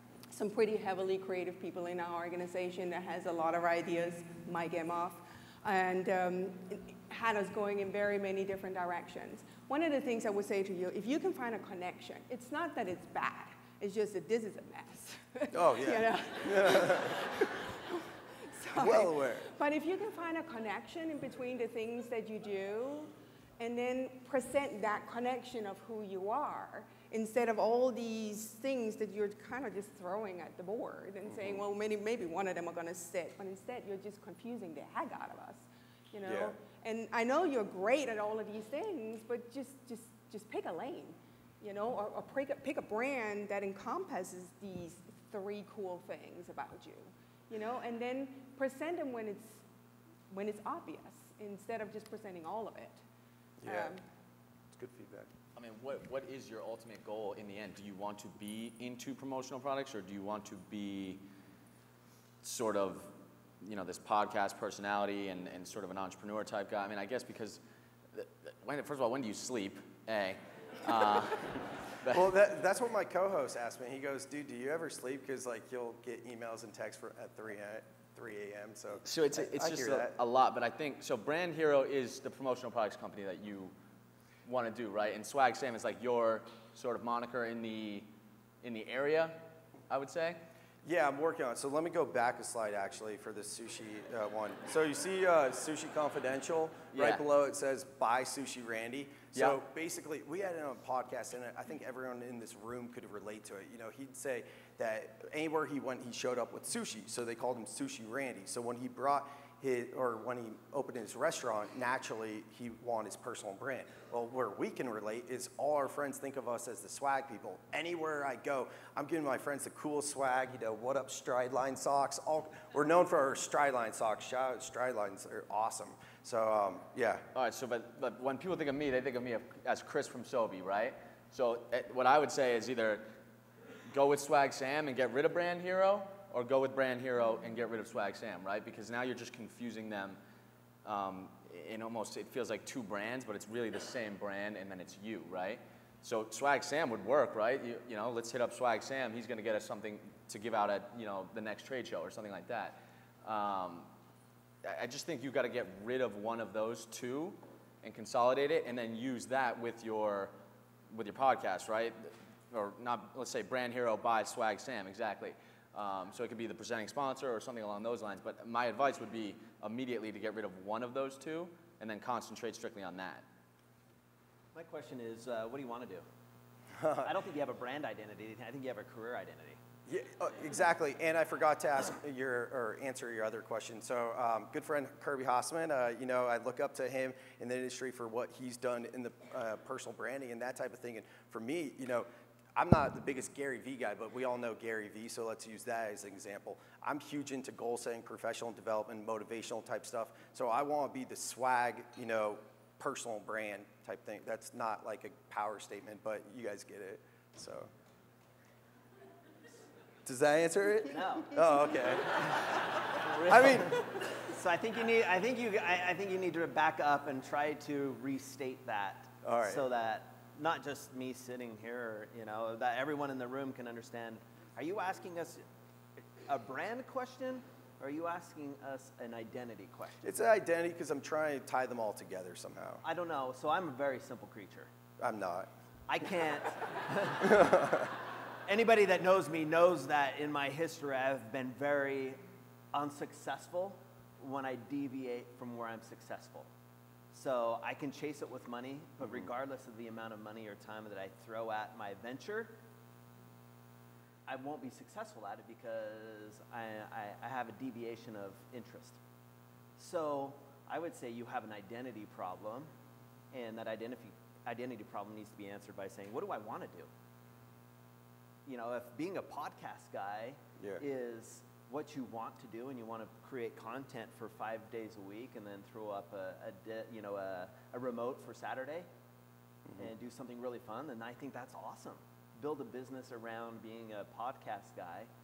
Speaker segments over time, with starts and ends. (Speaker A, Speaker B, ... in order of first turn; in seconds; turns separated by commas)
Speaker A: 0.3-49.6, Speaker B: 15.5-17.2, Speaker B: 18.8-19.5, Speaker B: 31.3-31.6, Speaker B: 36.3-36.5, Speaker A: 50.3-53.0, Speaker B: 53.6-53.9, Speaker A: 53.6-54.0, Speaker B: 54.7-55.3, Speaker C: 55.5-61.2, Speaker C: 62.4-67.6, Speaker C: 68.1-72.3, Speaker B: 72.1-80.1, Speaker C: 79.1-83.7, Speaker C: 84.5-88.1, Speaker C: 88.6-90.4, Speaker B: 90.8-127.2, Speaker C: 96.9-97.2, Speaker C: 127.3-133.1, Speaker C: 133.9-140.2, Speaker C: 140.8-153.9, Speaker C: 154.6-160.3, Speaker C: 160.9-173.2, Speaker D: 174.6-176.1, Speaker B: 176.8-177.1, Speaker D: 177.1-179.6, Speaker B: 179.9-207.7, Speaker B: 210.1-212.7, Speaker D: 210.9-212.4, Speaker D: 212.9-225.4, Speaker B: 213.2-213.8, Speaker B: 219.2-219.7, Speaker D: 226.0-230.1, Speaker B: 230.0-232.8, Speaker D: 232.8-234.7, Speaker B: 235.0-235.5, Speaker D: 235.9-237.5, Speaker B: 237.2-237.9, Speaker D: 238.5-242.2, Speaker D: 242.7-246.5, Speaker D: 247.1-252.6, Speaker D: 254.3-259.0, Speaker D: 259.8-262.7, Speaker D: 263.3-266.9, Speaker D: 268.5-278.9, Speaker B: 279.7-279.9, Speaker D: 279.8-285.1